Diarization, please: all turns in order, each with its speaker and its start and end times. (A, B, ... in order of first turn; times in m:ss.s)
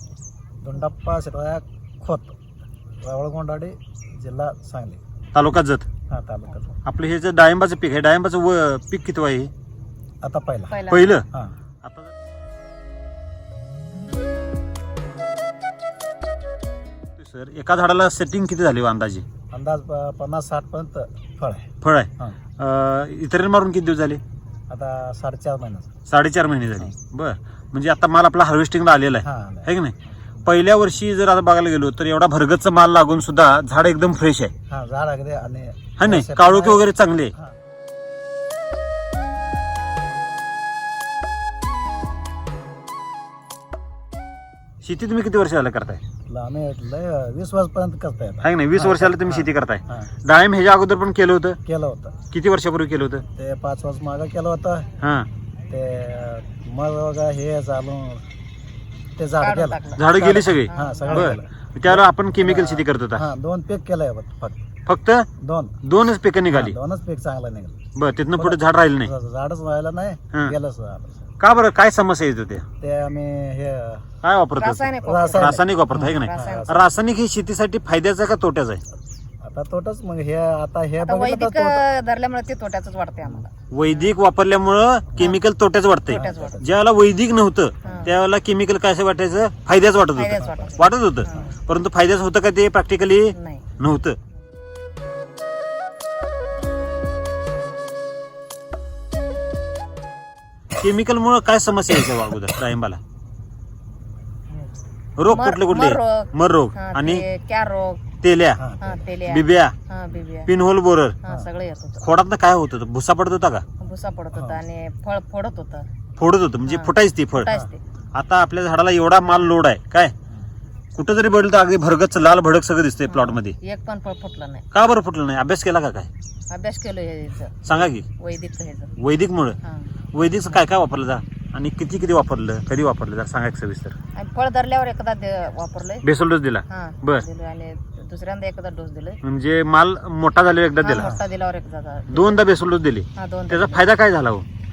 0:00.6-0:02.4 A
0:03.0-0:05.0 A
0:05.3-0:05.9 B
0:06.1-0:06.7 A
0:06.8-0:09.5 B
0:10.2-0:11.5 A
0:10.7-0:11.2 C
0:10.9-0:11.2 B
0:11.8-0:12.1 B
0:17.2-0:19.2 B
0:19.5-0:22.4 A
0:21.8-0:24.2 B
0:24.7-0:26.0 A
0:26.1-0:29.9 B
0:29.2-0:29.7 A
0:30.4-0:34.5 B
0:34.7-0:36.8 A
0:36.0-0:37.3 B
0:44.8-0:46.0 B
0:46.3-0:50.1 A
0:48.4-0:51.6 B
0:51.6-0:52.2 A
0:52.3-0:53.2 B
0:53.4-0:54.9 A
0:55.0-0:55.3 B
0:55.7-0:58.2 A
0:59.2-1:04.6 A
0:59.4-1:00.1 C
1:00.0-1:03.2 B
1:00.7-1:01.4 C
1:04.9-1:05.3 B
1:05.4-1:05.8 A
1:05.8-1:06.7 B
1:06.5-1:07.8 A
1:08.0-1:09.1 B
1:08.3-1:11.3 A
1:11.4-1:12.6 B
1:12.8-1:14.1 A
1:14.2-1:18.8 B
1:14.6-1:16.8 C
1:15.0-1:16.9 A
1:19.4-1:21.8 A
1:21.0-1:24.1 C
1:23.7-1:34.2 B
1:26.1-1:26.8 A
1:26.1-1:26.6 C
1:27.8-1:28.1 C
1:27.8-1:28.1 A
1:30.1-1:31.5 C
1:30.4-1:31.5 A
1:33.3-1:33.6 C
1:40.7-1:43.0 B
1:45.2-1:47.2 B
1:45.3-1:48.0 C
1:48.2-1:48.6 B
1:48.6-1:49.0 A
1:48.8-1:50.5 C
1:49.3-1:49.7 B
1:50.5-1:51.2 B
1:51.2-1:52.0 C
1:52.0-1:53.6 B
1:53.8-1:55.9 C
1:54.3-1:54.6 A
1:56.2-1:57.6 B
1:56.6-1:57.8 C
1:58.1-2:00.1 B
2:00.9-2:03.5 B
2:03.1-2:04.6 C
2:04.7-2:06.1 B
2:06.5-2:07.6 C
2:07.6-2:08.1 B
2:08.2-2:09.0 C
2:09.0-2:09.6 B
2:09.6-2:09.9 C
2:10.1-2:13.9 B
2:14.1-2:16.0 C
2:16.0-2:17.2 B
2:16.7-2:19.2 C
2:19.2-2:21.1 B
2:20.8-2:22.4 C
2:20.9-2:21.2 A
2:22.1-2:24.4 B
2:23.2-2:23.8 C